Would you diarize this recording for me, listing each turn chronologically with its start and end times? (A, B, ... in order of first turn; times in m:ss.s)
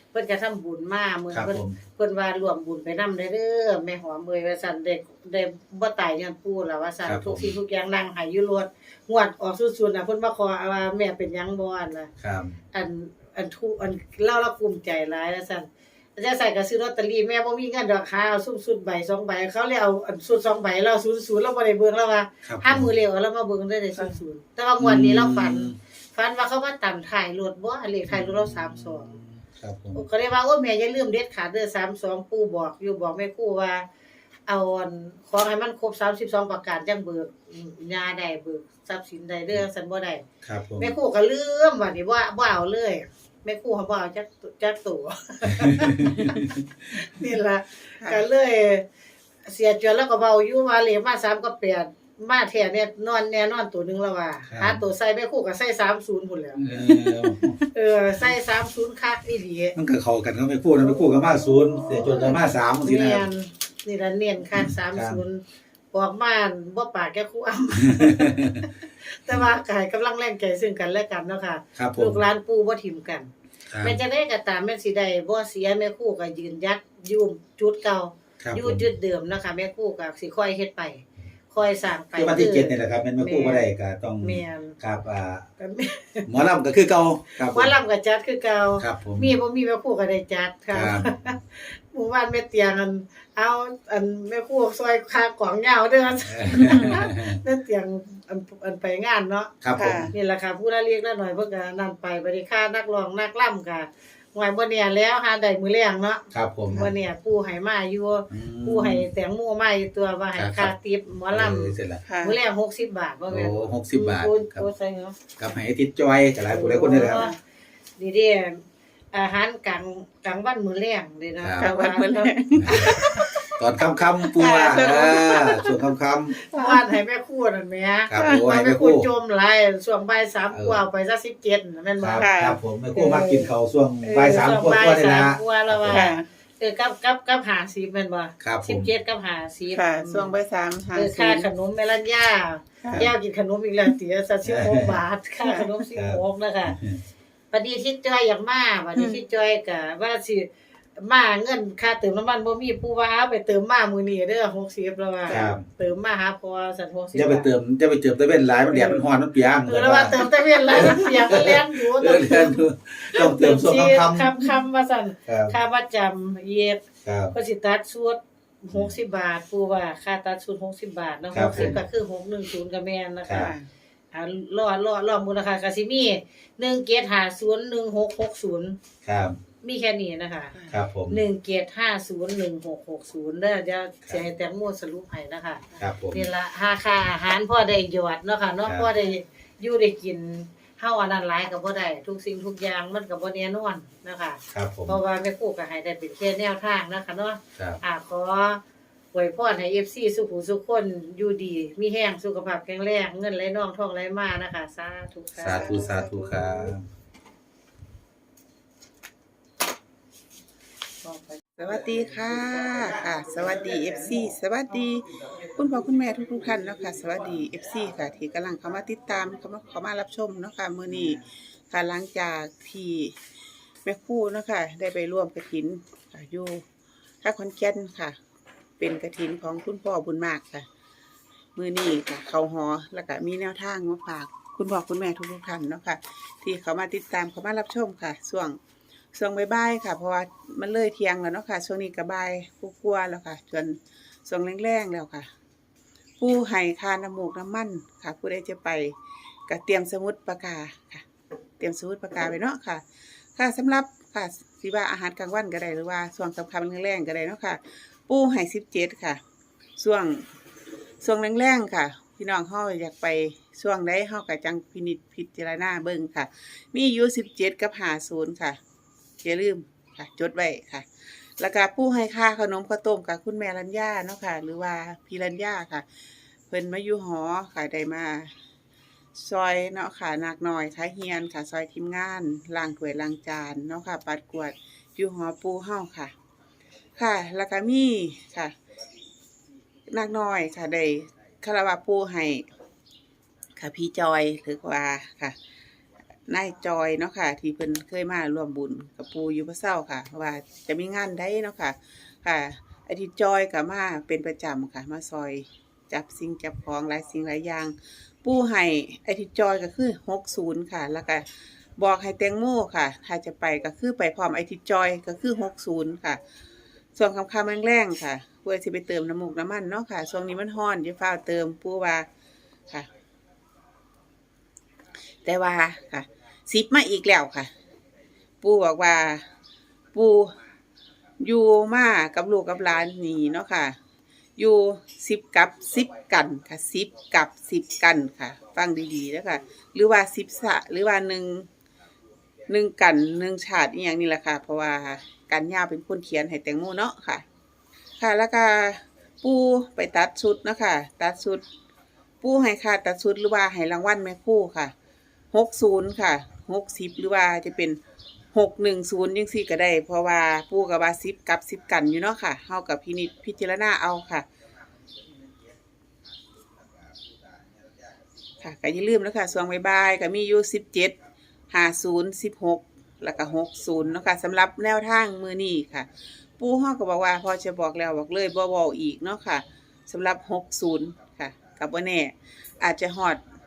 0:00.1-0:12.1 A
0:01.3-0:01.8 B
0:07.0-0:07.5 B
0:12.2-0:12.6 B
0:12.7-0:29.2 A
0:22.4-0:22.9 B
0:24.8-0:25.8 B
0:28.1-0:30.0 B
0:30.0-0:33.8 A
0:34.5-0:40.2 A
0:40.4-0:41.0 B
0:40.8-0:48.8 A
0:46.0-0:46.6 B
0:48.0-0:48.2 C
0:49.4-0:56.6 A
0:54.5-0:54.8 B
0:56.6-0:57.6 B
0:57.7-0:59.8 A
0:59.8-1:03.3 B
1:00.8-1:13.3 A
1:04.6-1:05.2 B
1:07.9-1:08.6 B
1:11.8-1:12.2 B
1:13.7-1:14.0 B
1:13.8-1:23.7 A
1:18.4-1:18.8 B
1:22.1-1:25.5 B
1:24.2-1:24.8 A
1:25.6-1:26.4 A
1:26.3-1:27.8 B
1:27.3-1:39.5 A
1:28.8-1:29.4 B
1:30.7-1:31.3 B
1:36.2-1:37.4 B
1:39.6-1:40.1 B
1:39.8-1:40.1 C
1:40.1-1:55.2 A
1:46.3-1:46.9 B
1:48.3-1:49.0 B
1:50.4-1:50.7 B
1:51.3-1:52.0 B
1:52.1-1:52.4 C
1:53.3-1:54.7 B
1:55.4-1:57.3 B
1:56.5-1:57.4 A
1:56.9-1:57.4 C
1:58.0-2:02.4 A
2:01.4-2:01.7 B
2:01.6-2:03.5 C
2:02.6-2:02.9 B
2:03.5-2:06.4 B
2:04.3-2:05.8 C
2:06.5-2:12.3 A
2:06.5-2:06.8 C
2:08.1-2:09.1 B
2:08.2-2:08.5 C
2:10.5-2:10.8 B
2:12.0-2:16.1 B
2:12.2-2:12.6 C
2:12.9-2:13.5 A
2:14.0-2:20.4 A
2:15.9-2:16.3 C
2:18.4-2:18.9 B
2:19.7-2:21.5 C
2:20.9-2:26.8 A
2:22.8-2:23.1 C
2:24.4-2:25.0 B
2:25.4-2:25.8 C
2:26.0-2:27.0 B
2:27.5-2:37.5 A
2:29.0-2:29.2 C
2:35.3-2:35.6 C
2:35.3-2:35.6 B
2:37.1-2:44.4 B
2:38.7-2:39.0 A
2:39.7-2:53.5 A
2:45.3-2:45.6 B
2:47.0-2:47.3 B
2:51.3-2:51.8 B
2:53.2-2:53.5 B
2:53.3-2:53.7 C
2:54.1-2:58.8 A
2:59.0-2:59.4 B
2:59.6-3:00.6 A
3:00.7-3:01.2 B
3:01.1-3:18.6 A
3:05.8-3:06.2 B
3:14.5-3:15.0 B
3:19.1-3:26.0 A
3:25.4-3:26.8 B
3:25.5-3:26.7 C
3:31.6-3:43.2 C
3:43.8-3:46.6 C
3:47.2-3:48.2 C
3:48.8-3:50.7 C
3:51.6-3:58.6 C
3:59.2-4:05.3 C
4:06.2-4:09.0 C
4:09.5-4:11.0 C
4:11.6-4:12.8 C
4:13.4-4:19.2 C
4:19.8-4:20.3 C
4:21.0-4:28.6 C
4:29.2-4:30.9 C
4:31.4-4:35.8 C
4:36.5-4:38.3 C
4:39.2-4:46.1 C
4:47.0-4:48.6 C
4:49.9-4:52.5 C
4:53.6-4:55.4 C
4:56.3-5:11.2 C
5:11.8-5:16.2 C
5:17.0-5:22.1 C
5:25.2-5:27.5 C
5:28.4-5:29.3 C
5:29.9-5:30.4 C
5:31.2-5:33.8 C
5:34.4-5:41.5 C
5:42.5-5:47.2 C
5:48.0-5:51.4 C
5:52.2-5:54.7 C
5:55.3-5:57.8 C
5:58.3-6:04.3 C
6:08.4-6:11.0 C
6:11.5-6:15.9 C
6:16.4-6:23.2 C